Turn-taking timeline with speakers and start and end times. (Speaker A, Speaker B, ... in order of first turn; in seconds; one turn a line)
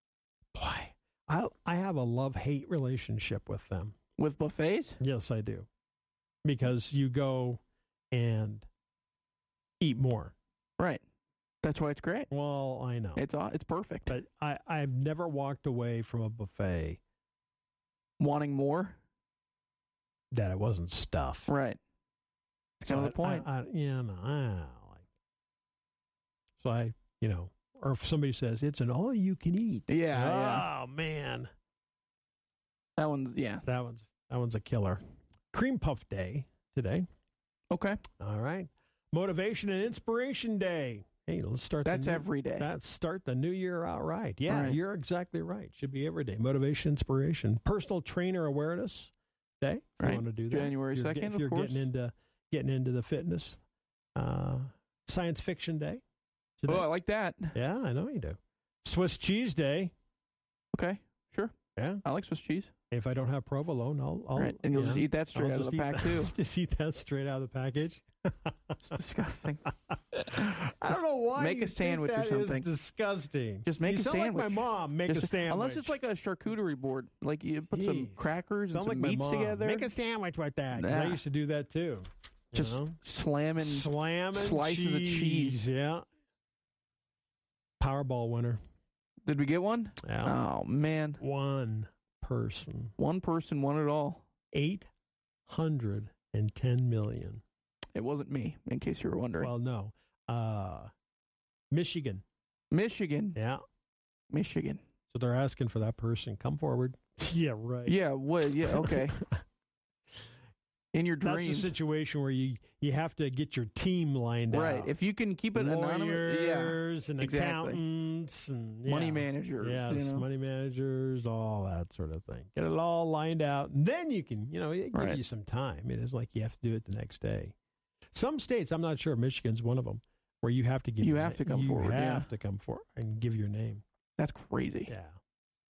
Speaker A: 0.5-4.0
Speaker B: 4.2-5.0
Speaker A: 5.0-5.7
Speaker A: 6.4-7.6
Speaker A: 8.1-8.7
Speaker A: 9.8-10.3
Speaker B: 11.6-12.3
Speaker A: 12.3-13.2
Speaker B: 13.2-14.2
Speaker A: 14.1-17.0
Speaker B: 18.2-19.0
Speaker A: 20.3-21.5
Speaker B: 21.5-21.8
Speaker B: 22.8-23.5
Speaker A: 22.9-25.1
Speaker A: 26.6-31.5
Speaker B: 29.9-30.7
Speaker B: 33.0-33.7
Speaker A: 33.7-35.0
Speaker A: 35.5-37.1
Speaker B: 37.7-38.0
Speaker A: 38.2-53.6
Speaker B: 41.9-42.7
Speaker B: 44.5-44.8
Speaker B: 50.0-51.9
Speaker A: 54.2-56.0
Speaker A: 56.6-56.9
Speaker B: 56.7-57.5
Speaker A: 57.5-59.9
Speaker B: 60.7-61.5
Speaker A: 61.8-62.0
Speaker B: 62.0-62.7
Speaker A: 62.9-68.5
Speaker B: 64.4-66.3
Speaker B: 68.8-70.6
Speaker A: 70.3-76.0
Speaker B: 71.4-72.7
Speaker B: 73.7-79.9
Speaker A: 77.7-83.0
Speaker B: 80.7-81.2
Speaker B: 82.5-85.7
Speaker A: 83.6-86.0
Speaker A: 87.8-88.6
Speaker B: 89.3-91.2
Speaker A: 90.0-90.4
Speaker A: 91.2-93.0
Speaker B: 93.0-94.2
Speaker A: 94.5-94.9
Speaker A: 95.5-97.4
Speaker B: 98.0-99.5
Speaker A: 99.4-100.9
Speaker A: 101.7-102.2
Speaker B: 102.7-103.4
Speaker A: 103.3-103.6
Speaker B: 104.3-104.8
Speaker A: 105.1-108.0
Speaker B: 107.9-109.2
Speaker A: 108.7-109.3
Speaker B: 110.9-111.7
Speaker A: 111.2-115.0
Speaker B: 114.5-117.8
Speaker A: 115.5-127.5
Speaker B: 118.9-120.3
Speaker B: 124.9-125.2
Speaker A: 128.1-133.8
Speaker B: 131.0-132.3
Speaker B: 134.2-134.9
Speaker A: 134.9-135.2